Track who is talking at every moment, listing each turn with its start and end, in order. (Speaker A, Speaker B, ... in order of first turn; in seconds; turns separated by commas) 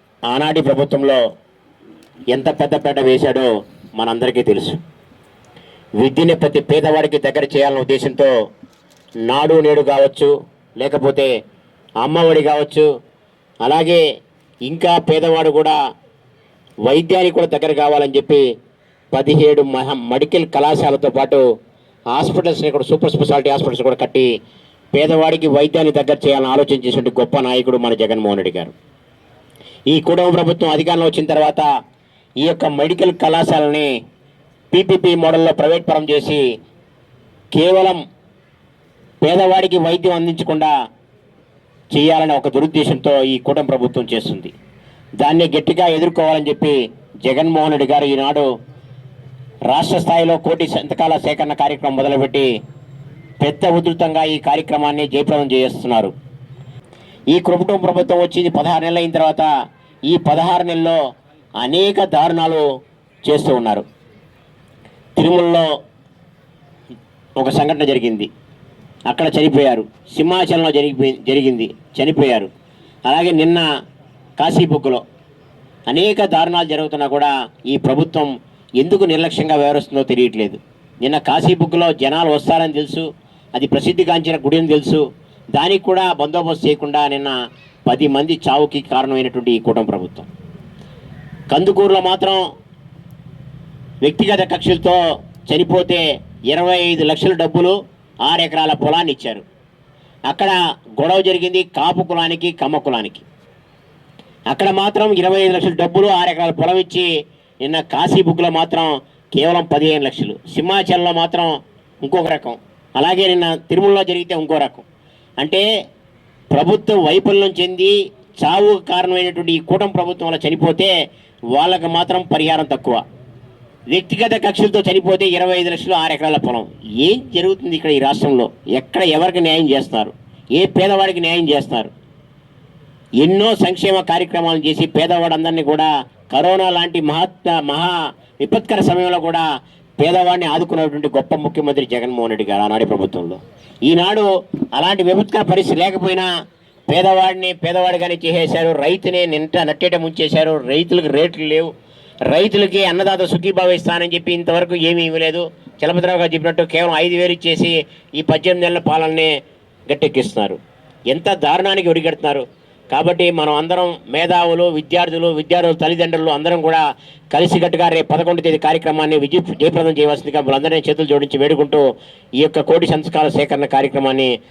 Speaker A: 0.3-1.2, Speaker A: 2.3-4.8, Speaker A: 6.0-8.3, Speaker A: 9.3-11.3, Speaker A: 12.0-12.8, Speaker A: 13.6-14.0, Speaker A: 14.7-15.8, Speaker A: 16.9-18.4, Speaker A: 19.1-21.4, Speaker A: 22.1-24.3, Speaker A: 24.9-28.7, Speaker A: 29.9-31.7, Speaker A: 32.4-33.9, Speaker A: 34.7-36.4, Speaker A: 37.5-38.0, Speaker A: 39.2-40.7, Speaker A: 41.9-44.5, Speaker A: 45.2-48.5, Speaker A: 49.7-52.5, Speaker A: 53.4-56.1, Speaker A: 57.3-59.5, Speaker A: 60.1-61.0, Speaker A: 61.6-62.6, Speaker A: 63.3-63.8, Speaker A: 65.2-65.7, Speaker A: 67.4-68.3, Speaker A: 69.1-72.5, Speaker A: 73.1-73.6, Speaker A: 74.4-75.0, Speaker A: 75.9-85.0, Speaker A: 85.5-87.3, Speaker A: 87.9-90.3, Speaker A: 91.5-92.4, Speaker A: 94.0-99.4, Speaker A: 100.3-103.2, Speaker A: 104.5-107.1, Speaker A: 107.6-114.8, Speaker A: 115.4-115.7, Speaker A: 116.5-120.9, Speaker A: 121.5-123.0, Speaker A: 123.9-131.9, Speaker A: 133.2-139.4, Speaker A: 140.0-146.3, Speaker A: 146.9-151.7, Speaker A: 152.3-159.3, Speaker A: 159.9-160.6, Speaker A: 161.1-171.8, Speaker A: 172.4-174.3